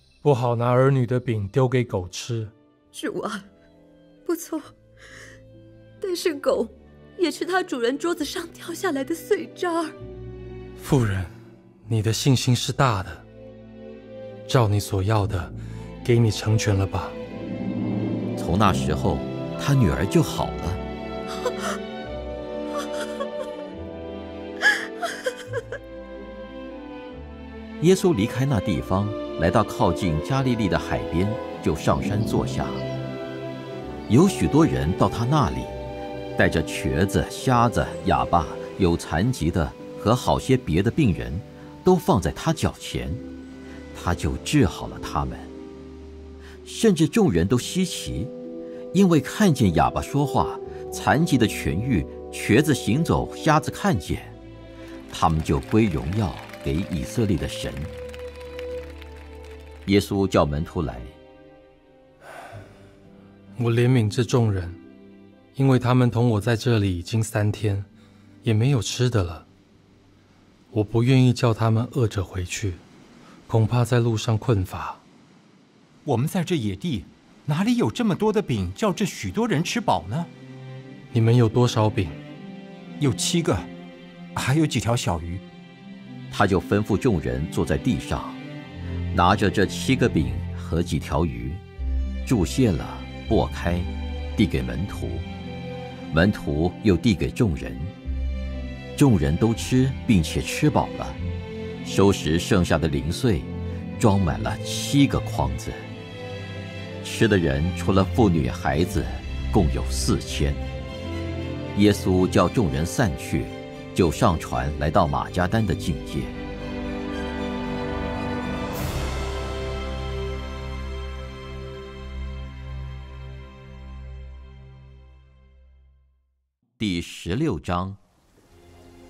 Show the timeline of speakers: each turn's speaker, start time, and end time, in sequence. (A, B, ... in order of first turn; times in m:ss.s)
0:00.2-0:02.5 A
0:02.9-0:03.4 B
0:04.2-0:04.7 B
0:06.0-0:10.0 B
0:10.8-0:11.3 A
0:11.8-0:13.2 A
0:14.4-0:17.2 A
0:18.4-0:20.8 C
0:27.8-0:32.8 C
0:34.1-0:35.7 C
0:36.4-0:43.2 C
0:43.9-0:45.5 C
0:46.6-0:48.3 C
0:48.9-0:54.3 C
0:55.1-0:57.9 C
0:59.8-1:01.1 C
1:03.6-1:04.8 A
1:05.5-1:07.9 A
1:08.4-1:09.4 A
1:10.7-1:12.8 A
1:13.5-1:15.0 A
1:16.0-1:20.3 D
1:21.1-1:22.2 A
1:23.0-1:23.7 D
1:24.4-1:25.4 D
1:26.3-1:28.4 C
1:29.1-1:31.6 C
1:32.2-1:35.3 C
1:36.1-1:37.9 C
1:39.0-1:41.2 C
1:41.8-1:45.8 C
1:47.0-1:50.6 C
1:51.7-1:56.4 C
2:06.8-2:08.0 C